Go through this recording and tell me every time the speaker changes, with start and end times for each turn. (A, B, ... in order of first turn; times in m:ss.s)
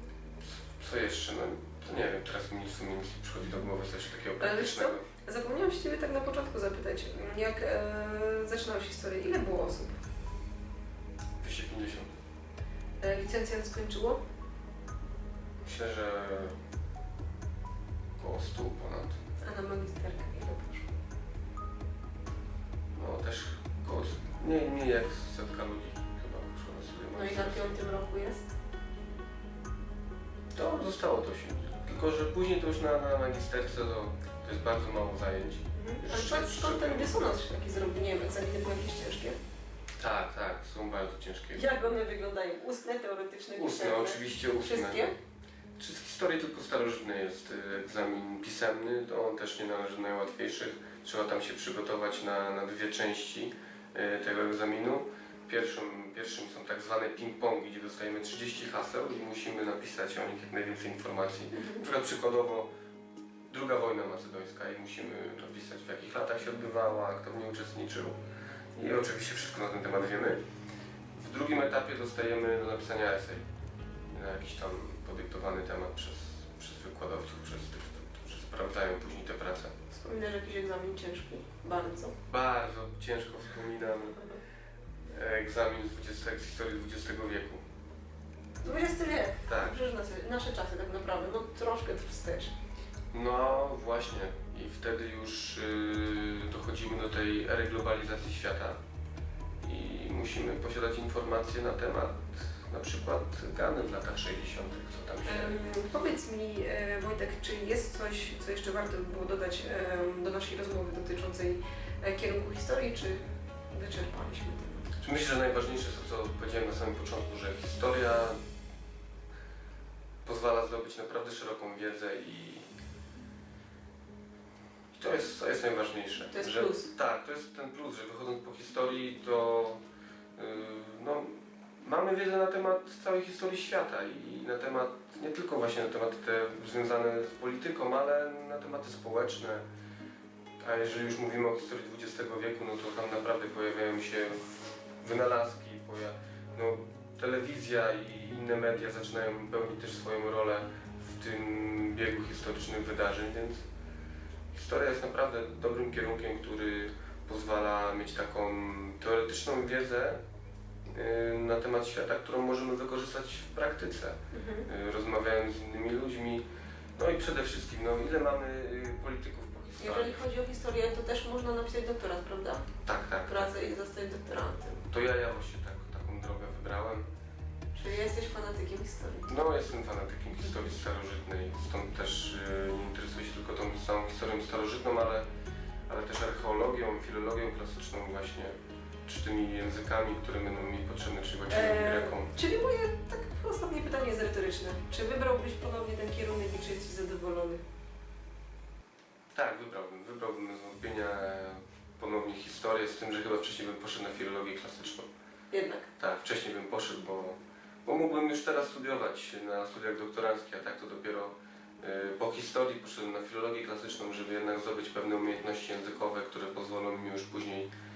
0:00.4-0:05.0 A
0:04.4-0:10.0 B
0:11.4-0:12.1 A
0:13.0-0:14.2 B
0:15.6-0:16.5 A
0:18.2-0:19.2 A
0:19.4-0:20.9 B
0:22.9-0:27.8 A
0:27.1-0:28.5 B
0:30.5-0:37.2 A
0:35.7-0:39.4 B
0:40.0-0:41.8 A
0:41.5-0:45.1 B
0:43.5-0:45.0 A
0:45.8-1:02.7 A
1:01.5-1:01.8 B
1:03.5-1:08.1 A
1:08.8-1:10.4 A
1:11.2-1:13.4 A
1:14.1-1:19.7 A
1:19.9-1:22.1 B
1:22.3-1:24.2 A
1:25.1-1:27.6 A
1:28.6-1:32.5 B
1:29.4-1:29.8 A
1:33.1-1:38.8 A
1:39.6-1:45.6 A
1:45.2-1:53.2 B
1:53.7-1:54.9 B
1:55.0-1:58.4 A
2:00.2-2:02.7 A
2:05.0-2:09.8 A
2:06.3-2:06.9 B
2:10.4-2:19.6 A
2:20.6-2:24.4 A
2:25.0-2:33.6 A
2:34.5-2:40.2 A
2:40.9-2:50.2 A
2:44.3-2:44.7 B
2:49.8-2:52.7 B
2:52.8-2:53.5 A
2:53.2-2:54.8 B
2:54.8-2:57.0 A
2:57.7-2:59.3 B
2:59.2-3:05.2 A
3:05.9-3:12.3 A
3:11.5-3:17.6 B
3:19.3-3:25.1 A
3:25.5-3:25.9 B
3:26.0-3:37.7 A